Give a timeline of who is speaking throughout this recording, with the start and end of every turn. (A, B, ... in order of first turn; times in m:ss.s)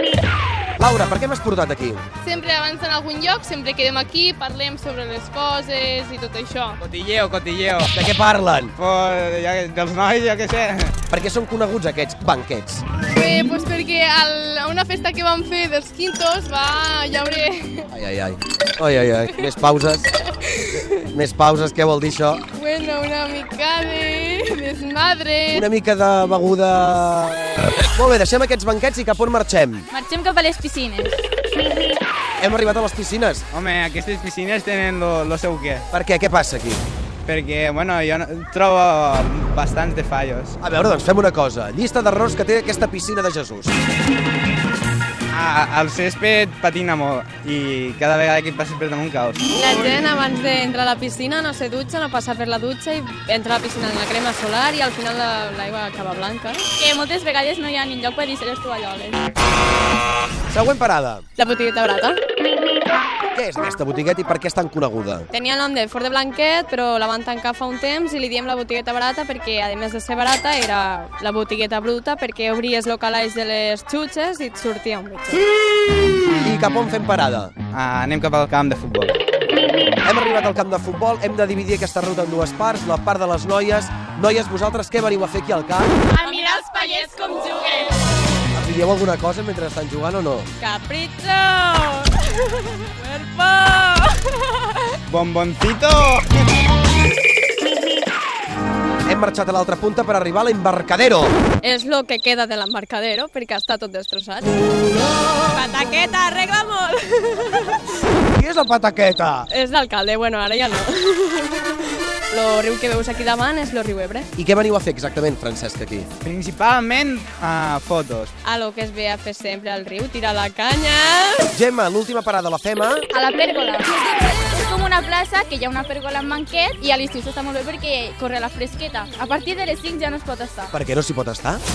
0:00.8-0:02.0 A
0:02.2-0:06.8 B
0:06.8-0:07.9 C
0:07.9-0:08.7 A
0:08.8-0:11.0 C
0:11.1-0:12.8 A
0:13.1-0:17.9 B
0:17.9-0:20.1 A
0:20.4-0:21.0 B
0:21.0-0:22.4 A
0:22.5-0:25.7 B
0:25.5-0:29.8 A
0:29.9-0:31.2 D
0:32.4-0:33.4 A
0:33.5-0:35.8 C
0:35.9-0:36.8 A
0:37.2-0:40.6 C
0:40.6-0:43.7 A
0:45.3-0:49.4 C
0:49.5-0:56.7 E
0:56.8-0:59.2 D
1:00.5-1:01.2 A
1:01.4-1:02.2 E
1:03.3-1:05.3 A
1:05.3-1:15.4 E
1:16.4-1:17.5 A
1:17.7-1:19.1 C
1:20.0-1:25.9 A
1:26.2-1:27.8 E
1:26.2-1:27.5 D
1:28.5-1:30.5 A
1:30.6-1:34.9 E
1:35.1-1:36.4 C
1:39.0-1:41.4 A
1:41.6-1:47.9 E
1:48.3-1:49.5 A
1:49.5-1:54.3 E
1:54.4-1:56.1 A
1:56.2-1:58.3 C
1:58.4-2:01.5 E
2:01.5-2:03.0 A
2:03.1-2:10.7 D
2:10.7-2:11.6 A